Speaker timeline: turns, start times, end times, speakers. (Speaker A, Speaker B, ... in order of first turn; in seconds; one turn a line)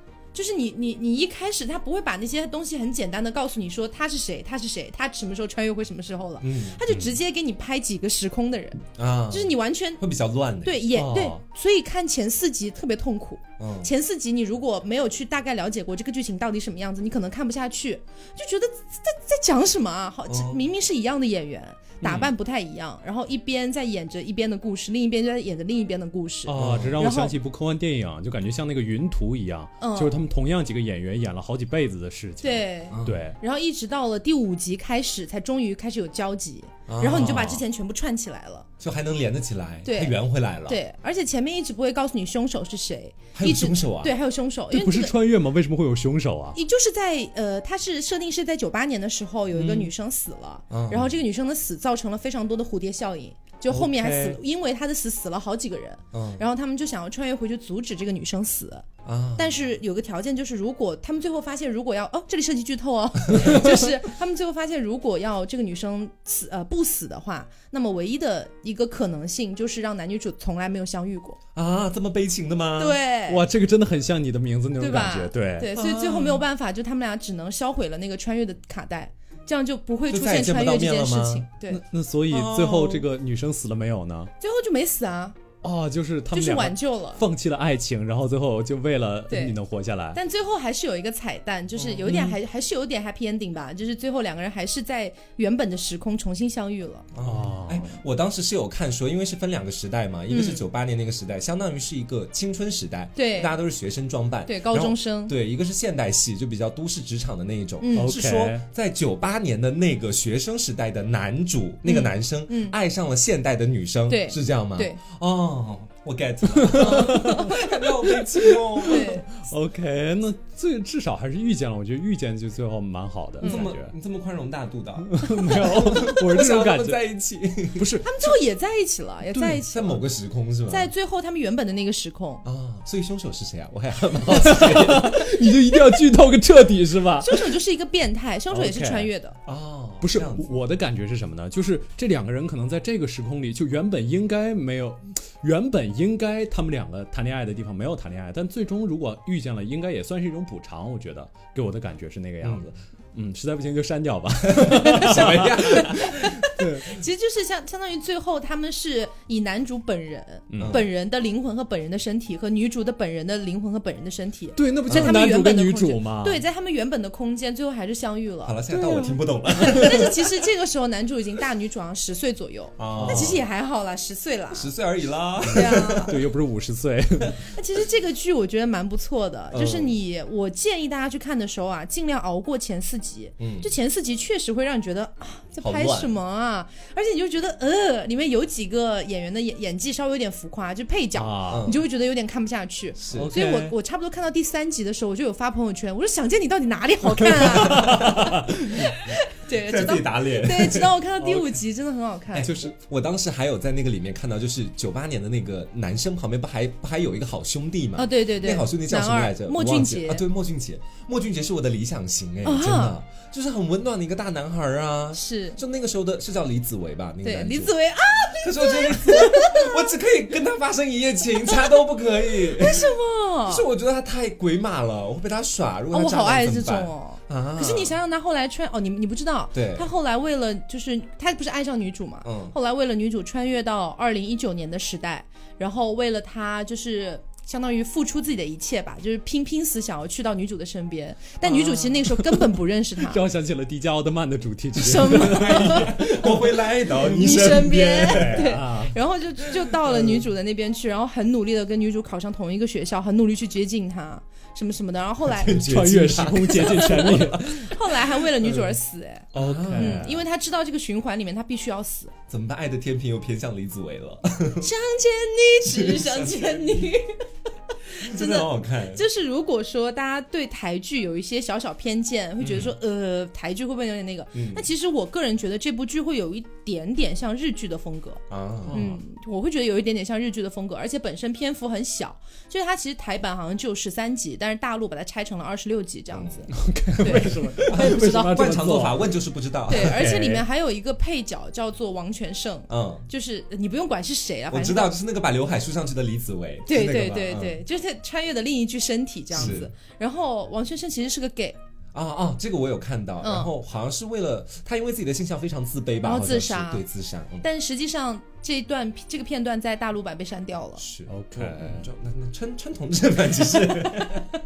Speaker A: 0.3-10.0
Speaker B: 6.4-6.8
Speaker B: 9.0-11.4
Speaker A: 10.6-27.3
Speaker B: 13.6-13.9
Speaker B: 20.3-20.6
Speaker B: 22.0-22.3
Speaker C: 26.4-33.4
Speaker B: 26.5-27.1
Speaker A: 29.8-30.3
Speaker A: 32.4-38.7
Speaker B: 32.9-33.3
Speaker B: 36.9-37.6
Speaker C: 37.1-37.6
Speaker B: 38.8-40.8
Speaker A: 39.8-45.1
Speaker B: 43.3-44.1
Speaker C: 44.7-46.6
Speaker A: 46.5-71.4
Speaker B: 49.5-49.9
Speaker B: 50.7-51.2
Speaker C: 53.7-54.4
Speaker B: 56.1-56.4
Speaker B: 59.0-59.5
Speaker B: 63.3-63.8
Speaker B: 71.5-73.0
Speaker A: 72.8-73.4
Speaker C: 73.3-75.7
Speaker A: 74.8-81.8
Speaker B: 75.7-76.4
Speaker B: 80.1-81.5
Speaker C: 81.7-84.3
Speaker B: 82.3-83.0
Speaker A: 84.4-85.4
Speaker C: 85.6-90.2
Speaker A: 86.3-87.2
Speaker A: 89.3-89.5
Speaker A: 90.1-97.0
Speaker B: 91.7-92.3
Speaker B: 97.1-119.1
Speaker C: 97.2-97.9
Speaker A: 100.3-100.6
Speaker A: 103.2-103.6
Speaker A: 104.4-105.3
Speaker A: 107.8-108.1
Speaker C: 108.0-108.6
Speaker A: 111.8-112.8
Speaker A: 114.1-115.0
Speaker C: 116.5-123.9
Speaker A: 116.7-117.5
Speaker A: 118.8-119.3
Speaker A: 123.4-123.7
Speaker B: 123.4-127.9
Speaker C: 125.0-127.0
Speaker C: 127.7-128.1
Speaker A: 128.0-130.0
Speaker C: 129.3-129.6
Speaker B: 129.7-130.9
Speaker A: 130.7-132.4
Speaker B: 132.4-135.3
Speaker C: 134.3-137.4
Speaker A: 137.2-139.4
Speaker C: 138.5-139.1
Speaker B: 139.4-140.5
Speaker C: 140.0-156.8
Speaker B: 152.4-152.7
Speaker B: 154.4-156.6
Speaker A: 154.8-174.7
Speaker C: 160.5-160.8
Speaker B: 160.5-160.9
Speaker C: 164.6-166.4
Speaker B: 164.9-165.2
Speaker B: 168.4-170.2
Speaker B: 172.8-173.4
Speaker C: 172.9-173.4
Speaker B: 174.5-176.2
Speaker A: 175.4-176.1
Speaker C: 175.5-177.4
Speaker A: 177.4-202.6
Speaker B: 179.5-179.9
Speaker B: 183.4-183.7
Speaker B: 185.6-186.1
Speaker C: 191.1-191.8
Speaker B: 191.5-191.8
Speaker B: 193.0-193.3
Speaker C: 193.1-193.7
Speaker C: 197.3-198.4
Speaker B: 197.6-198.3
Speaker B: 199.5-201.0
Speaker B: 202.3-217.7
Speaker A: 207.9-210.2
Speaker A: 212.4-212.9
Speaker A: 215.1-215.6
Speaker A: 217.2-219.9
Speaker B: 218.4-222.9
Speaker A: 222.5-223.6
Speaker B: 223.5-227.9
Speaker A: 225.9-243.2
Speaker B: 229.5-229.9
Speaker B: 232.2-232.5
Speaker B: 241.6-241.9
Speaker C: 241.8-242.4
Speaker C: 243.0-248.9
Speaker A: 244.8-245.9
Speaker B: 244.9-248.6
Speaker A: 247.0-255.6
Speaker B: 249.7-250.2
Speaker B: 255.2-257.6
Speaker C: 255.6-257.7
Speaker A: 256.8-262.1
Speaker B: 259.3-260.1
Speaker C: 259.3-260.2
Speaker B: 262.3-264.7
Speaker A: 264.6-267.2
Speaker B: 265.6-266.9
Speaker A: 267.9-288.4
Speaker B: 268.0-269.0
Speaker B: 272.4-272.7
Speaker B: 274.3-274.6
Speaker B: 278.3-278.8
Speaker C: 278.7-279.0
Speaker B: 286.1-286.5
Speaker C: 286.5-289.0
Speaker B: 287.0-290.0
Speaker A: 289.7-294.9
Speaker C: 289.8-290.4
Speaker B: 292.7-293.1
Speaker B: 294.5-297.6
Speaker A: 296.7-301.6
Speaker B: 299.3-299.7
Speaker B: 301.9-307.4
Speaker A: 303.2-303.5
Speaker A: 306.0-306.8
Speaker A: 307.4-310.8
Speaker B: 310.8-314.3
Speaker C: 311.1-311.9